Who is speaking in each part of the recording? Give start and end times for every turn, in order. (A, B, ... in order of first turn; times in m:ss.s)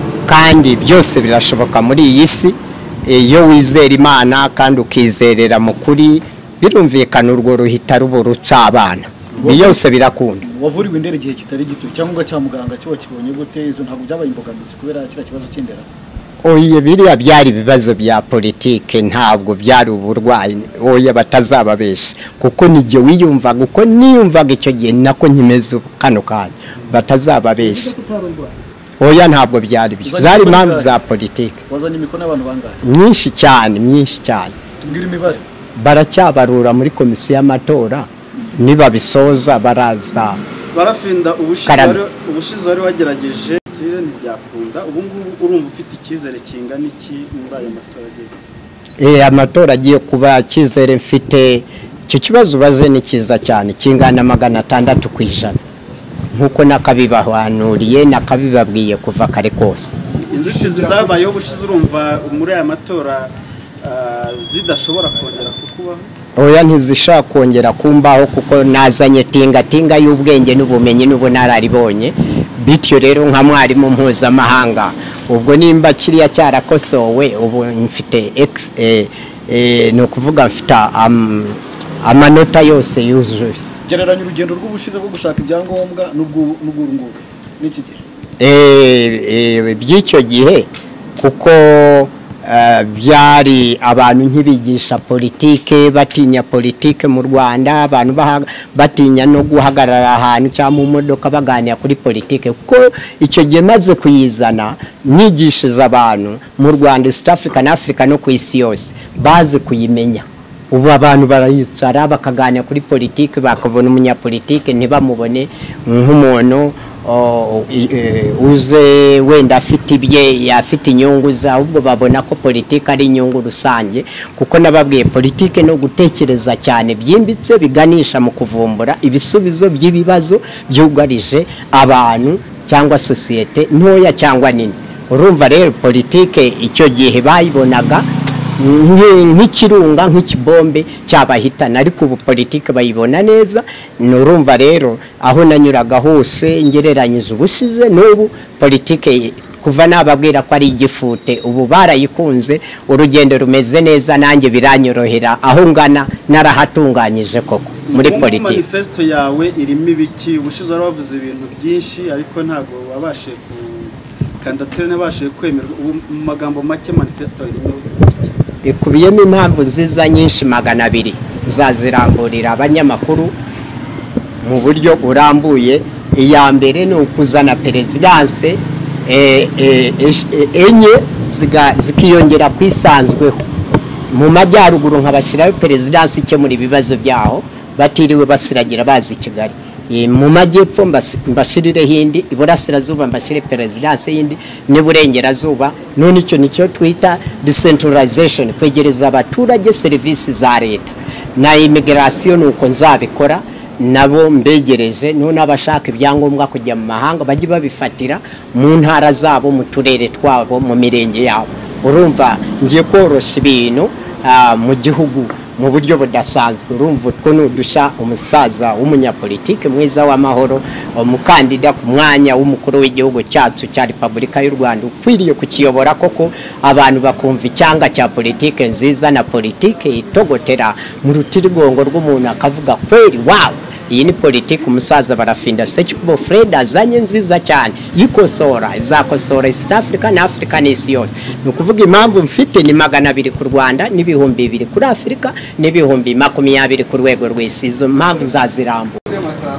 0:00.2-0:10.4 A
0:10.4-0:15.9 B
0:16.4-0:28.0 A
0:27.9-0:28.4 B
0:29.0-0:31.6 A
0:30.0-0:30.9 B
0:31.7-0:32.8 B
0:32.8-0:34.6 A
0:34.8-0:35.4 B
0:35.8-0:40.4 A
0:40.7-0:48.3 C
0:41.6-0:42.0 A
0:49.0-0:55.6 A
0:56.3-1:00.0 A
1:00.2-1:06.1 C
1:00.3-1:01.1 B
1:06.4-1:23.6 A
1:23.8-1:28.0 B
1:28.4-1:30.6 A
1:31.2-2:18.0 A
2:18.6-2:38.6 A
2:37.9-2:48.4 C
2:48.6-2:53.3 A
2:54.4-3:03.4 A
3:04.1-4:09.0 A